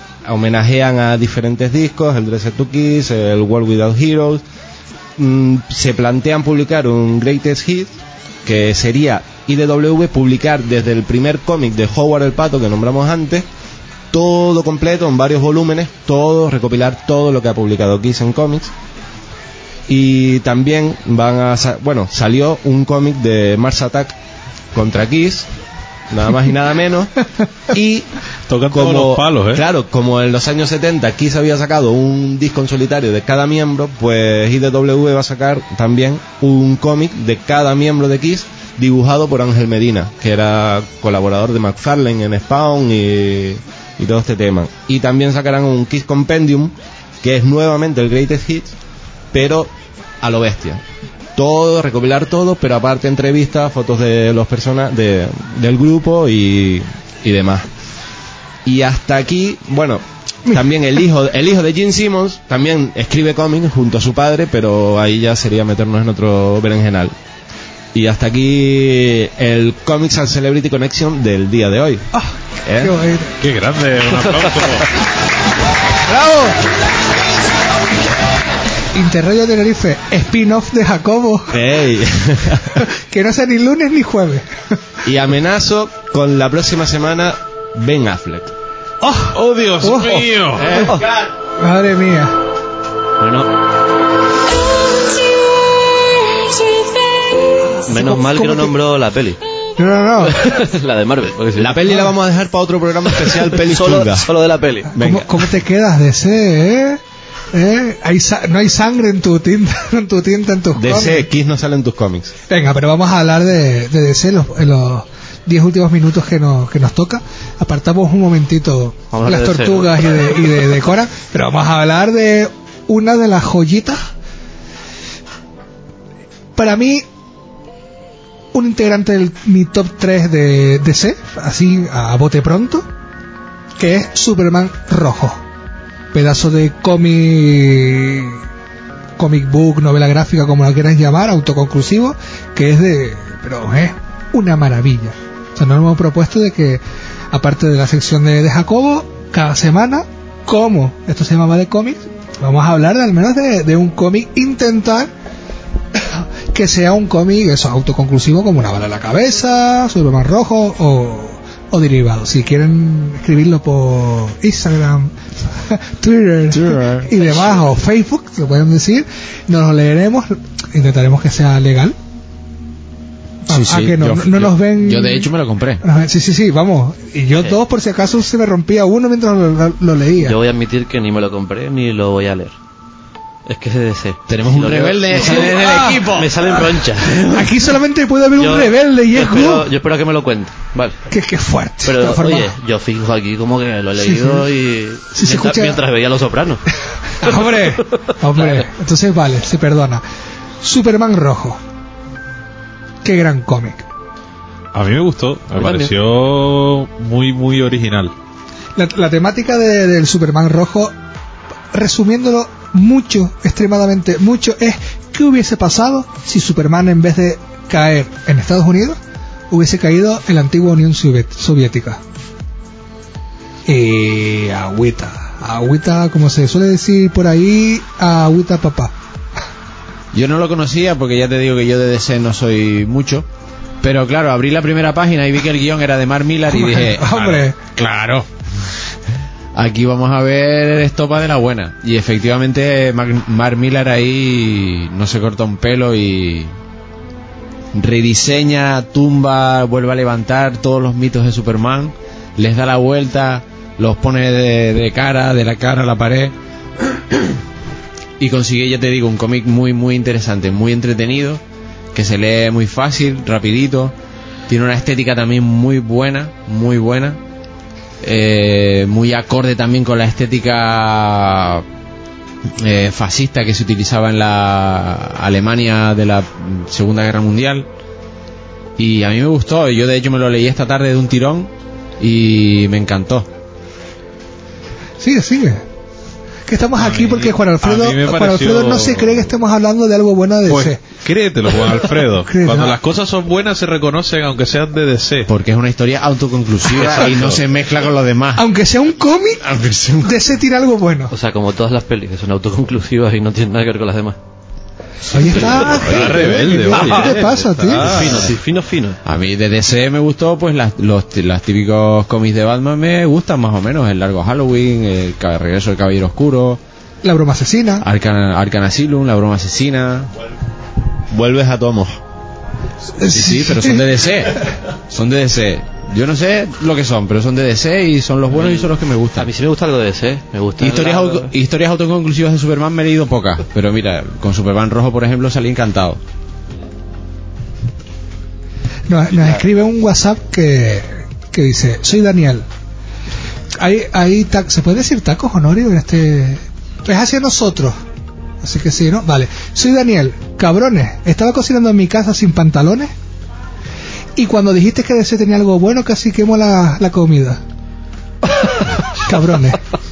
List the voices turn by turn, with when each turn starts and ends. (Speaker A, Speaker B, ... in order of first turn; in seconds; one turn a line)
Speaker A: 0.2-4.4
Speaker A: 5.2-13.4
Speaker A: 14.1-18.7
Speaker A: 19.9-24.1
Speaker A: 24.7-25.4
Speaker A: 26.1-27.1
Speaker A: 27.7-28.1
Speaker B: 28.5-29.6
Speaker A: 28.7-48.7
Speaker A: 49.3-49.7
Speaker A: 50.2-50.8
Speaker A: 51.4-57.7
Speaker A: 58.6-67.1
Speaker A: 67.9-72.0
Speaker C: 72.2-73.3
Speaker A: 72.6-72.9
Speaker B: 73.4-74.9
Speaker C: 76.0-76.6
Speaker C: 78.9-81.6
Speaker A: 81.5-82.8
Speaker C: 82.8-84.5
Speaker A: 85.0-88.5
Speaker C: 89.0-91.0
Speaker B: 89.3-90.8
Speaker A: 90.5-91.2
Speaker C: 91.6-92.4
Speaker D: 93.2-93.5
Speaker C: 97.8-98.7
Speaker D: 97.8-99.4
Speaker C: 99.8-100.4
Speaker D: 100.3-101.8
Speaker A: 101.6-104.3
Speaker D: 103.2-104.9
Speaker A: 104.9-105.4
Speaker C: 104.9-107.0
Speaker C: 107.5-111.2
Speaker A: 110.7-112.3
Speaker C: 112.5-124.0
Speaker D: 119.1-120.4
Speaker C: 126.5-127.0
Speaker C: 128.5-132.8
Speaker C: 133.8-135.4
Speaker C: 136.1-138.4
Speaker C: 139.2-155.1
Speaker C: 155.9-171.9
Speaker E: 166.5-167.2
Speaker C: 173.5-175.3
Speaker E: 173.5-175.8
Speaker C: 175.8-180.4
Speaker D: 180.2-182.5
Speaker D: 183.4-187.5
Speaker E: 184.3-186.7
Speaker C: 185.1-186.1
Speaker C: 187.2-189.7
Speaker D: 188.3-191.0
Speaker C: 191.1-192.5
Speaker D: 191.8-196.6
Speaker C: 194.0-194.4
Speaker C: 195.1-195.8
Speaker C: 197.2-200.0
Speaker D: 197.2-197.6
Speaker C: 200.6-201.6
Speaker C: 203.0-203.9
Speaker B: 204.7-208.1
Speaker D: 205.5-205.9
Speaker C: 208.8-210.9
Speaker C: 211.7-219.0
Speaker C: 219.5-222.0
Speaker C: 223.7-228.9
Speaker E: 230.1-233.3
Speaker E: 233.8-238.3
Speaker C: 236.5-237.5
Speaker E: 239.5-246.5
Speaker E: 247.7-256.3
Speaker E: 258.2-263.9
Speaker E: 264.5-267.2
Speaker E: 268.0-271.6
Speaker E: 272.6-277.7
Speaker E: 278.8-283.3
Speaker C: 285.0-285.6
Speaker C: 286.5-290.8
Speaker B: 286.8-289.3
Speaker B: 290.5-295.3
Speaker C: 292.2-292.8
Speaker E: 295.2-298.5
Speaker B: 296.8-297.3
Speaker C: 298.4-299.4
Speaker E: 299.4-300.2
Speaker C: 300.0-301.1
Speaker D: 301.1-304.2
Speaker C: 305.1-307.9
Speaker E: 305.4-306.3
Speaker B: 305.7-308.3
Speaker D: 307.7-309.0
Speaker E: 309.0-316.6
Speaker C: 317.0-317.8
Speaker E: 317.8-320.1
Speaker A: 321.1-321.9
Speaker C: 323.0-323.9
Speaker E: 323.1-329.3
Speaker D: 328.3-331.3
Speaker E: 330.6-336.0
Speaker C: 338.9-342.4
Speaker C: 343.6-347.8
Speaker C: 348.4-352.9
Speaker C: 354.1-357.4
Speaker C: 359.1-359.6